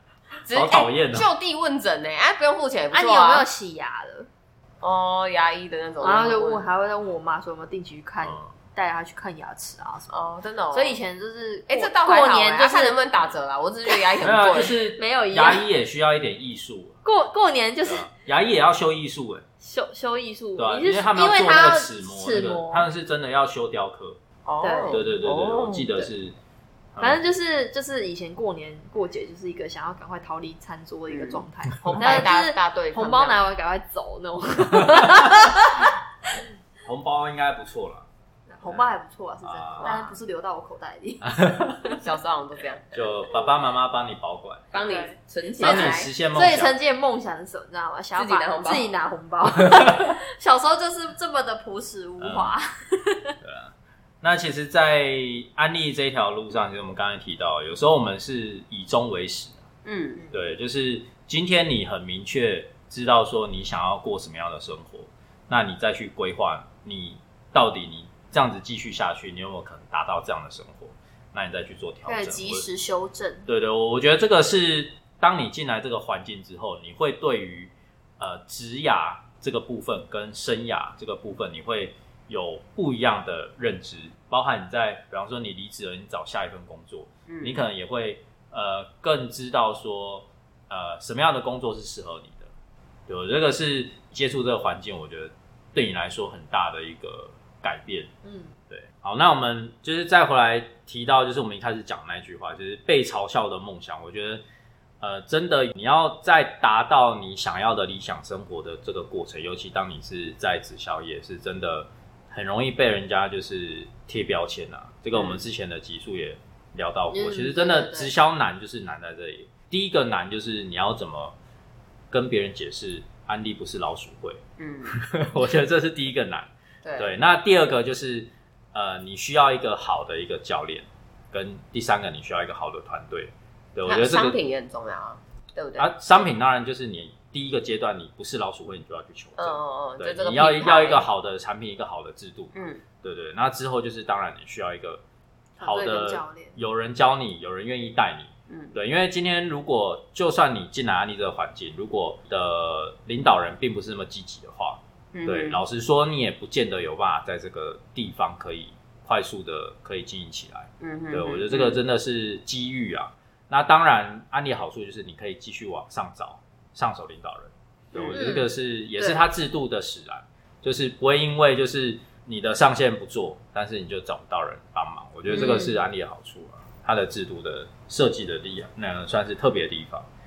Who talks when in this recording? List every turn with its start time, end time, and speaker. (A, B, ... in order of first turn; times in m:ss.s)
0:00.4-0:03.5 A
0:00.5-0:01.3 B
0:02.9-0:04.3 C
0:04.8-0:06.7 A
0:06.0-0:13.0 C
0:08.2-0:08.5 B
0:10.1-0:11.0 A
0:11.7-0:14.8 A
0:14.2-0:17.0 B
0:14.9-0:15.6 C
0:17.0-0:18.1 C
0:17.8-0:19.4 B
0:19.6-0:22.9 C
0:20.6-0:24.2 B
0:24.4-0:25.9 A
0:24.6-0:25.1 C
0:24.9-0:26.4 B
0:26.9-0:27.2 B
0:27.0-0:35.9 C
0:31.1-0:33.4 A
0:31.8-0:32.2 B
0:34.8-0:35.3 B
0:36.8-0:38.0 B
0:38.5-0:38.8 A
0:38.6-0:41.4 C
0:39.4-0:39.9 B
0:39.8-0:40.2 A
0:41.2-0:42.0 B
0:41.9-0:43.0 A
0:42.9-0:44.7 B
0:44.7-0:46.1 A
0:44.7-0:53.3 C
0:45.6-0:46.7 B
0:48.2-0:48.9 A
0:49.8-0:50.0 B
0:52.2-0:52.5 B
0:53.4-0:59.6 B
0:59.8-1:00.2 A
1:00.3-1:12.6 B
1:12.0-1:13.5 C
1:13.5-1:32.5 B
1:27.3-1:27.6 A
1:33.1-1:38.1 B
1:38.2-1:38.5 C
1:38.7-1:44.4 B
1:45.0-2:01.4 B
1:55.1-1:55.4 A
1:57.1-1:58.0 C
1:57.7-1:58.1 A
2:02.1-2:14.4 B
2:04.6-2:05.0 A
2:06.8-2:07.2 A
2:13.8-2:15.9 A
2:15.8-2:25.0 B
2:19.4-2:21.0 A
2:22.5-2:22.8 A
2:25.6-2:26.6 C
2:25.6-3:00.1 B
2:28.5-2:28.7 A
2:35.1-2:35.6 A
2:40.8-2:41.8 A
2:47.9-2:48.3 A
2:48.1-2:49.2 C
2:55.3-2:55.7 C
2:55.3-2:55.7 A